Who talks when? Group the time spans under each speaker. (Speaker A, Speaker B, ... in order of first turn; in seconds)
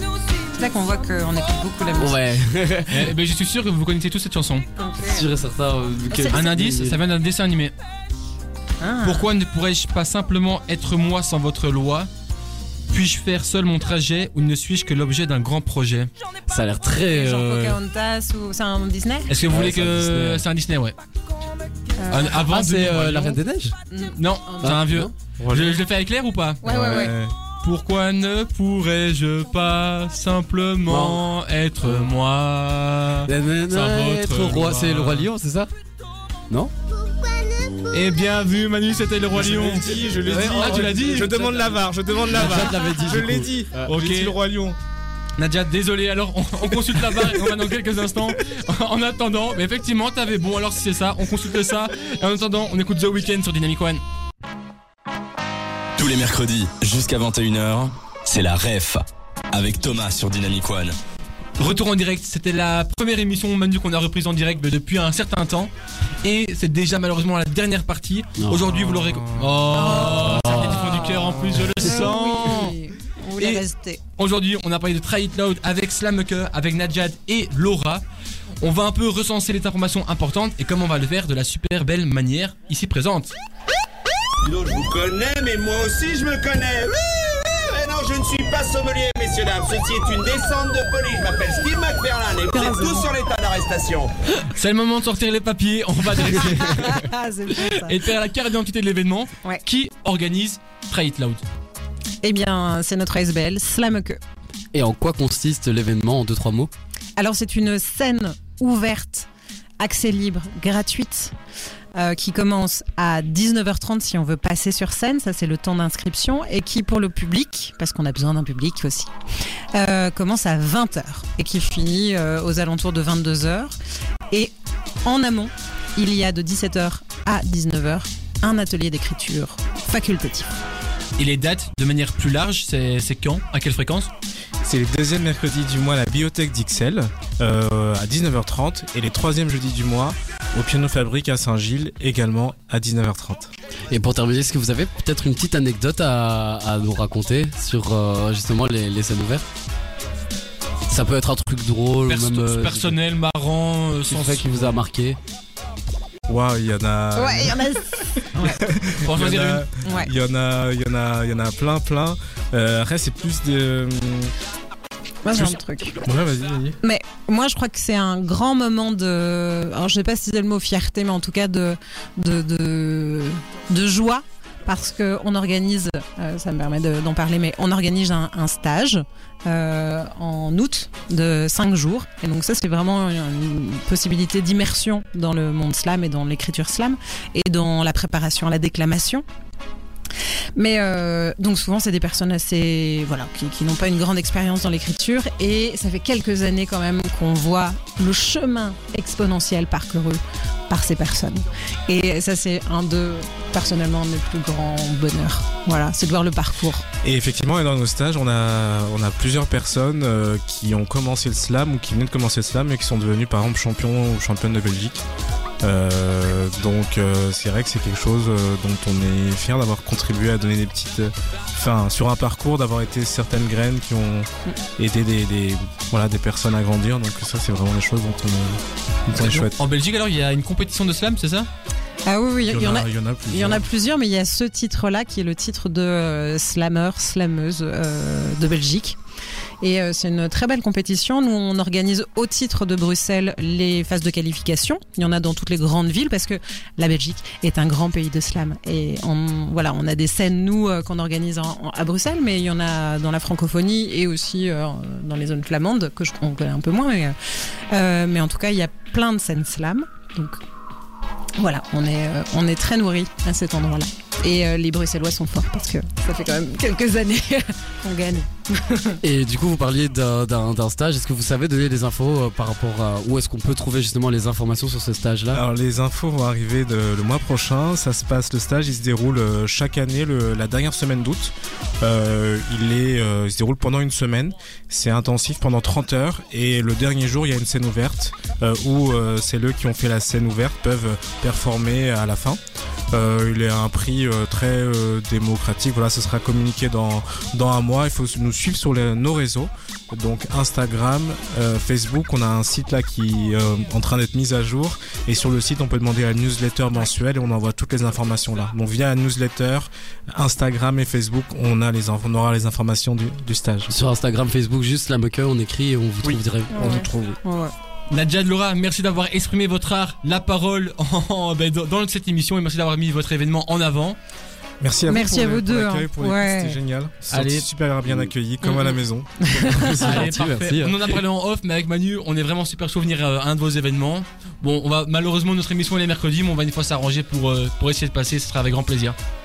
Speaker A: 0.5-2.2, 4.8-5.3, 6.1-6.4, 8.8-9.3, 17.1-19.3, 22.0-22.4, 23.9-24.7, 26.6-27.1, 69.7-74.0, 92.5-93.1, 96.5-98.1, 102.2-104.2, 107.2-109.3, 109.8-111.3, 111.9-119.1, 119.7-123.8, 125.0-130.6, 157.2-158.6, 159.8-160.1, 165.2-166.0, 166.8-189.2, 190.6-206.8, 232.1-239.0, 239.6-257.2, 257.7-260.4, 261.4-269.0, 316.5-317.5, 324.9-326.6, 329.3-329.7
Speaker B: 2.0-3.1, 5.1-7.0, 16.5-17.8, 19.5-20.4, 22.4-23.8, 24.6-25.1, 30.9-31.2, 31.8-32.1, 33.3-35.7, 39.4-43.9, 68.4-68.7, 70.2-71.1, 104.7-106.7, 143.9-149.5, 150.9-153.0, 154.1-155.2, 269.0-275.4, 313.7-316.8, 329.4-330.9
Speaker C: 2.9-4.7, 6.3-7.7, 9.0-12.1, 12.9-16.1, 19.3-21.0, 22.1-23.4, 24.2-26.6, 27.6-35.3, 37.9-41.4, 42.3-42.6, 43.9-44.4, 45.4-54.0, 61.6-65.7, 66.2-72.8, 73.4-73.6, 74.2-78.0, 78.6-83.3, 94.5-101.4, 131.2-134.1, 152.1-154.8, 159.0-159.7, 229.2-231.5, 317.9-324.0, 327.1-327.5, 329.8-339.0
Speaker D: 25.4-25.8, 26.6-27.4, 39.4-44.8, 68.8-69.7, 71.4-71.7, 134.6-143.5, 156.3-164.3, 165.3-166.8, 207.0-215.0, 215.6-229.6, 232.5-233.7, 275.3-292.4, 292.9-313.7, 316.0-317.2, 324.6-329.8
Speaker E: 56.0-61.0
Speaker F: 84.4-94.1